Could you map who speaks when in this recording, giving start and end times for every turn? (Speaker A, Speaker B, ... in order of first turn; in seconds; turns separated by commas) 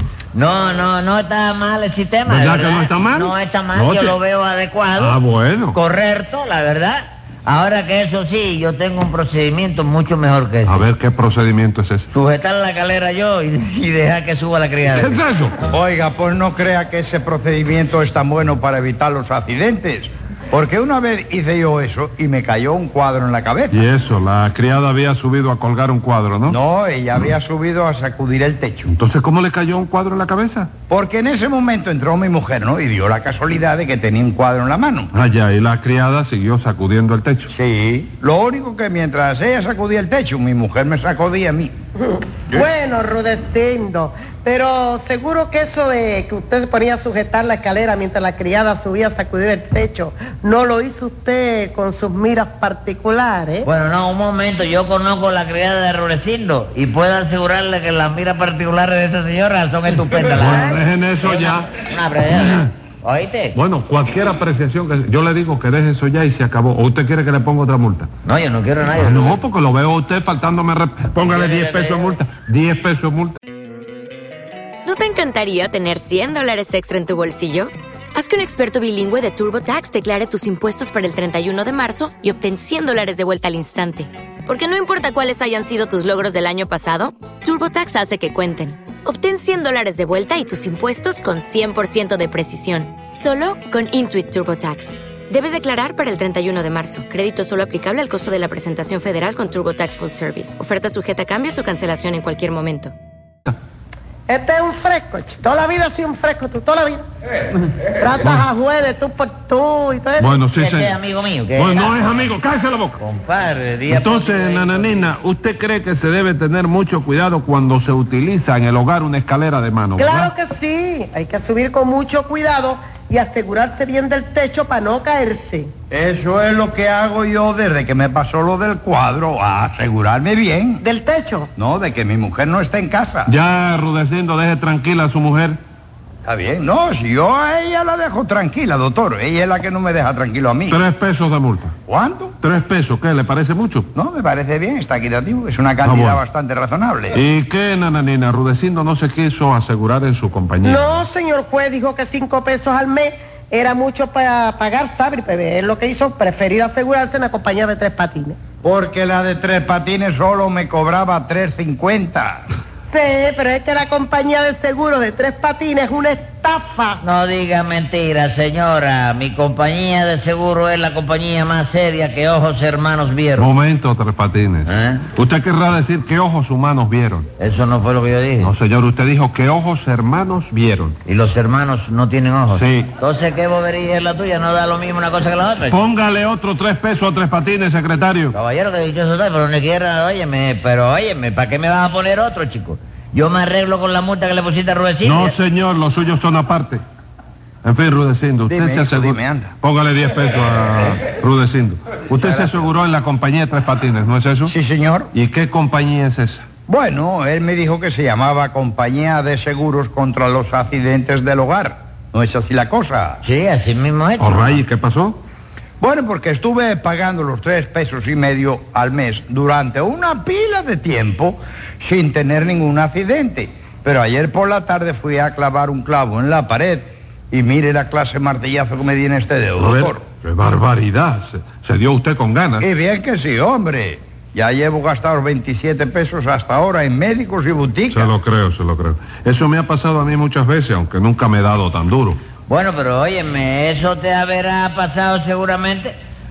Speaker A: 0.3-5.2, Speaker B: 2.3-4.2, Speaker B: 5.0-5.8, Speaker A: 5.7-10.9, Speaker B: 10.7-12.0, Speaker A: 12.1-15.2, Speaker B: 14.9-15.6, Speaker C: 15.6-23.9, Speaker B: 23.7-26.6, Speaker C: 26.4-28.9, Speaker B: 28.9-30.7, Speaker C: 30.9-35.1, Speaker B: 35.1-37.5, Speaker C: 37.5-41.7, Speaker D: 42.0-53.7, Speaker A: 53.6-63.6, Speaker B: 60.4-61.7, Speaker D: 60.5-60.7, Speaker B: 63.5-68.1, Speaker A: 68.2-69.4, Speaker B: 69.0-73.4, Speaker A: 71.2-72.2, Speaker E: 74.8-102.9, Speaker D: 104.3-107.0, Speaker D: 107.8-110.4, Speaker B: 110.2-111.0, Speaker A: 110.5-112.3, Speaker B: 111.5-113.0, Speaker A: 113.0-115.1, Speaker B: 113.9-120.3, Speaker D: 120.0-125.7, Speaker C: 125.9-130.8, Speaker D: 130.8-131.5, Speaker C: 131.6-133.3, Speaker B: 133.2-135.6, Speaker C: 136.2-140.8, Speaker B: 140.7-141.7, Speaker C: 141.9-142.3, Speaker B: 142.4-143.9, Speaker C: 143.9-147.2, Speaker B: 145.8-146.2, Speaker B: 147.1-151.1, Speaker D: 150.6-158.4, Speaker C: 158.6-162.4, Speaker D: 162.9-167.0, Speaker A: 167.0-173.5, Speaker B: 173.4-177.3, Speaker A: 174.7-175.0, Speaker A: 177.4-178.5, Speaker B: 178.4-181.0, Speaker A: 181.0-185.8, Speaker B: 182.5-182.9, Speaker B: 185.7-188.3, Speaker A: 188.3-195.4, Speaker B: 195.0-196.8, Speaker B: 197.6-204.5, Speaker C: 198.4-199.5, Speaker C: 202.1-202.6, Speaker C: 204.5-205.1, Speaker B: 205.1-206.4, Speaker C: 206.7-213.2, Speaker A: 213.2-214.6, Speaker B: 214.2-215.2, Speaker C: 215.8-230.0, Speaker B: 229.6-232.7, Speaker C: 232.6-238.1, Speaker B: 237.9-242.2, Speaker A: 242.5-245.9